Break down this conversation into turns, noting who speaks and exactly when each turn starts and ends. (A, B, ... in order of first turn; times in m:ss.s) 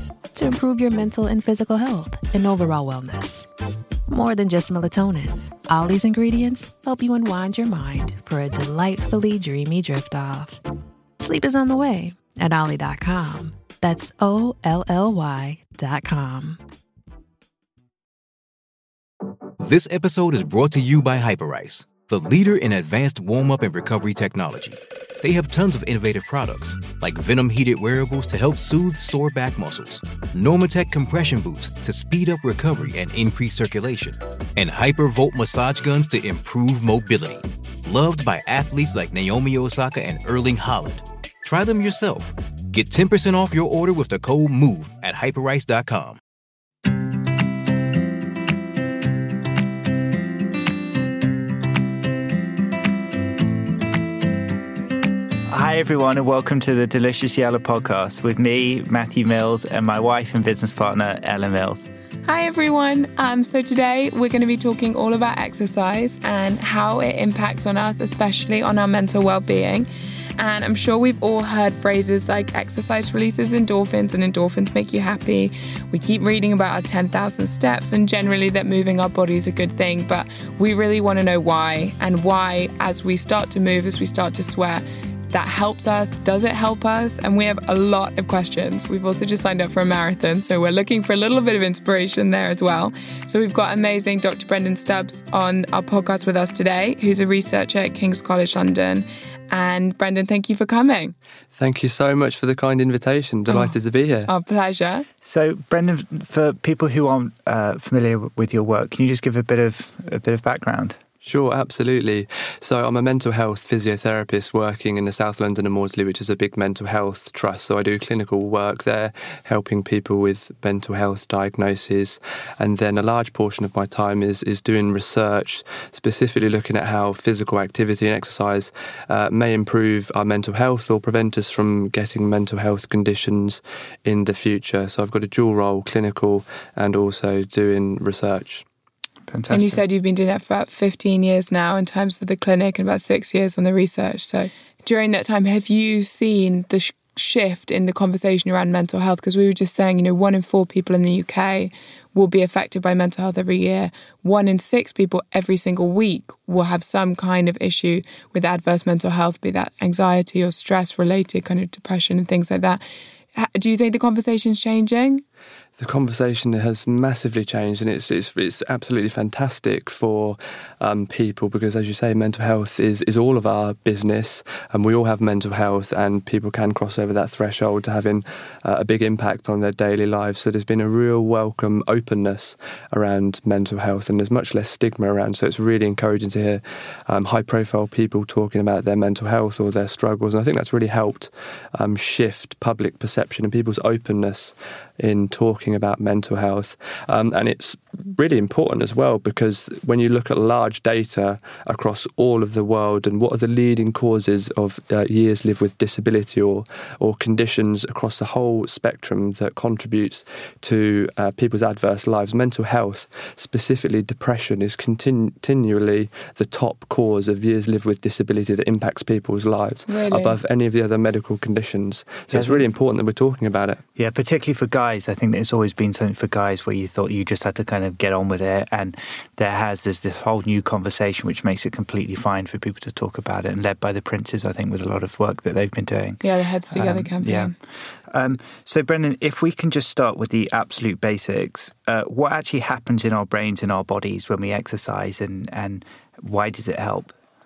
0:00.3-0:03.5 A
0:04.1-0:10.6 A
0:11.2-0:16.6 A
0:19.6-0:46.2 B
0:55.5-1:01.9 C
1:02.3-1:41.1 D
1:41.6-1:44.3 E
1:43.5-1:43.7 D
1:44.3-1:45.0 D
1:45.2-1:51.0 C
1:51.2-2:18.6 E
2:19.3-2:19.8 C
2:19.5-2:42.8 D
2:43.4-2:45.2 D
2:45.8-3:43.8 E
3:39.9-3:40.4 D
3:42.3-3:42.6 C
3:44.0-3:57.5 C
3:56.2-3:57.5 D
3:58.1-4:07.1 C